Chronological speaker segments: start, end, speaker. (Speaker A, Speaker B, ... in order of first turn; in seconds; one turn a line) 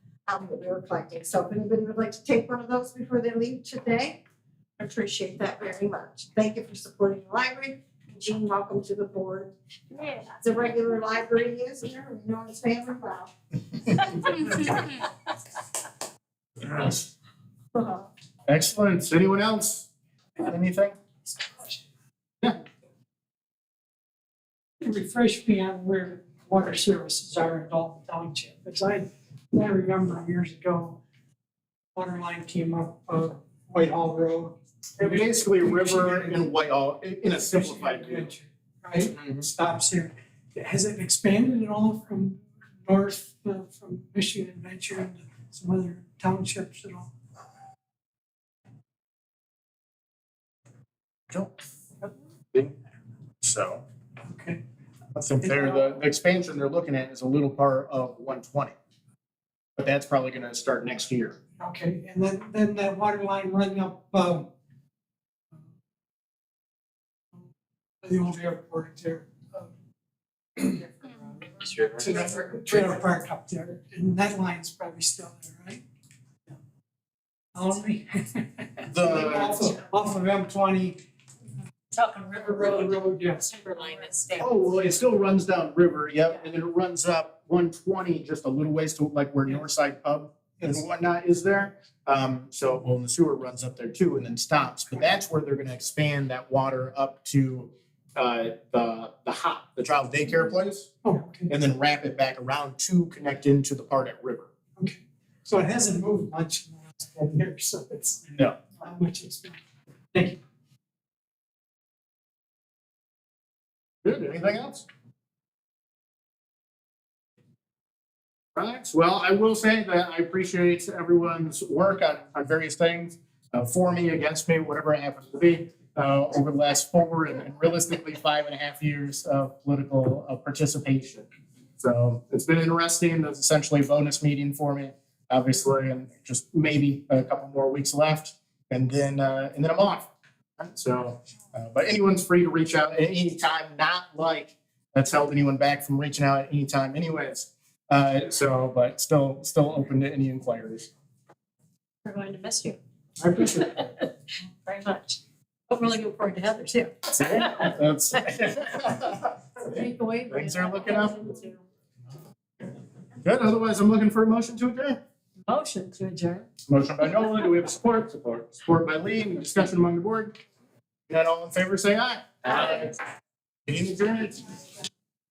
Speaker A: 0.3-4.2
Speaker A: 4.8-9.5
Speaker A: 10.2-13.3
Speaker A: 13.9-14.6
Speaker B: 16.7-17.0
Speaker A: 17.8-18.0
Speaker B: 18.5-20.9
Speaker C: 24.8-31.0
Speaker C: 31.9-36.4
Speaker B: 35.0-38.3
Speaker C: 37.5-47.1
Speaker B: 51.3-51.6
Speaker B: 53.4-53.8
Speaker C: 54.2-54.6
Speaker B: 55.1-58.7
Speaker B: 59.8-61.4
Speaker C: 61.6-64.5
Speaker C: 68.0-69.7
Speaker C: 70.5-75.8
Speaker C: 77.5-81.0
Speaker B: 78.8-79.7
Speaker D: 81.9-83.0
Speaker C: 82.3-83.9
Speaker D: 83.5-84.5
Speaker B: 84.4-100.9
Speaker C: 101.0-101.5
Speaker B: 101.5-104.5
Speaker C: 104.8-109.6
Speaker B: 108.3-108.6
Speaker C: 110.1-110.4
Speaker B: 114.0-114.8
Speaker B: 118.5-131.2
Speaker B: 131.8-150.9
Speaker D: 152.0-152.8
Speaker D: 153.4-153.9
Speaker D: 154.7-155.2
Speaker D: 155.7-157.8
Speaker B: 157.1-159.3
Speaker D: 159.6-161.6
Speaker B: 160.3-161.2
Speaker B: 163.2-165.0
Speaker D: 165.5-166.4
Speaker B: 166.7-170.3
Speaker B: 171.1-172.9
Speaker B: 173.7-174.5